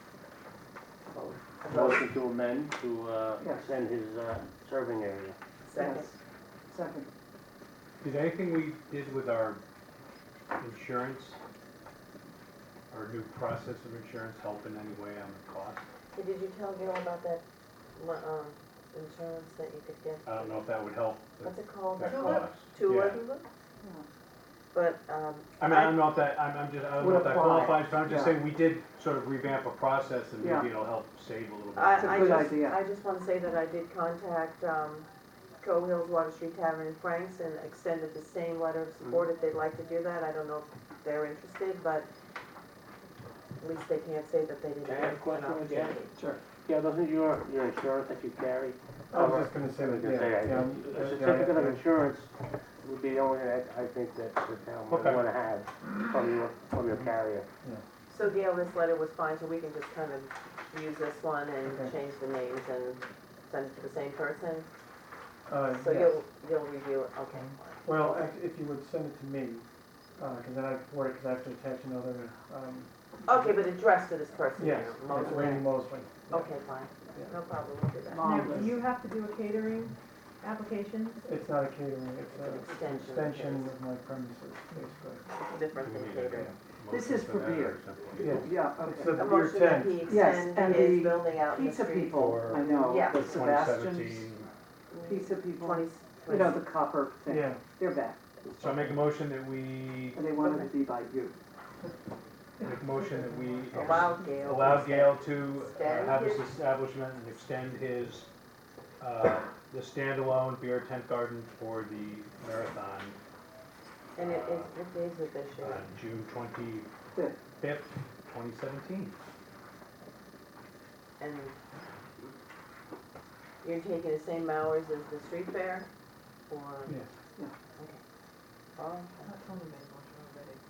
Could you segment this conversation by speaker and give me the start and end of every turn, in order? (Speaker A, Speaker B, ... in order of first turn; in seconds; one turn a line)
Speaker A: 1.1-2.0
Speaker B: 1.6-5.4
Speaker C: 3.4-3.7
Speaker A: 5.6-6.1
Speaker C: 5.7-6.2
Speaker C: 6.7-7.1
Speaker D: 8.0-9.6
Speaker D: 10.6-11.3
Speaker D: 12.9-15.8
Speaker A: 16.1-17.4
Speaker A: 17.9-20.6
Speaker D: 20.2-23.2
Speaker A: 21.4-23.4
Speaker A: 24.7-26.1
Speaker D: 25.6-32.5
Speaker C: 27.0-28.4
Speaker C: 30.4-30.7
Speaker A: 31.7-35.1
Speaker C: 32.0-32.8
Speaker A: 35.6-42.1
Speaker A: 43.6-46.1
Speaker B: 44.8-46.0
Speaker B: 46.6-57.5
Speaker E: 49.1-51.8
Speaker D: 54.9-55.2
Speaker A: 58.1-64.7
Speaker E: 61.6-61.9
Speaker E: 65.5-66.2
Speaker A: 65.7-68.2
Speaker E: 67.8-69.7
Speaker E: 70.2-72.9
Speaker A: 73.2-75.7
Speaker E: 74.6-76.6
Speaker A: 76.3-78.7
Speaker C: 78.1-78.8
Speaker F: 78.2-81.3
Speaker E: 81.2-85.5
Speaker A: 82.3-83.7
Speaker A: 85.5-86.5
Speaker D: 85.8-88.5
Speaker C: 86.9-89.3
Speaker E: 88.2-90.1
Speaker A: 89.1-93.5
Speaker C: 90.0-94.3
Speaker D: 92.1-94.5
Speaker A: 94.9-96.6
Speaker C: 95.0-99.0
Speaker E: 97.3-97.6
Speaker D: 98.6-100.2
Speaker C: 100.1-101.4
Speaker A: 100.4-100.7
Speaker D: 102.6-108.3
Speaker A: 103.7-106.5
Speaker D: 109.0-113.2
Speaker D: 114.1-114.7
Speaker A: 114.2-115.8
Speaker D: 115.6-116.9
Speaker C: 117.1-117.4
Speaker D: 117.6-119.2
Speaker A: 121.2-121.5
Speaker A: 123.6-125.9
Speaker A: 126.5-127.0
Speaker E: 126.8-127.1
Speaker A: 128.8-129.3
Speaker F: 129.2-130.6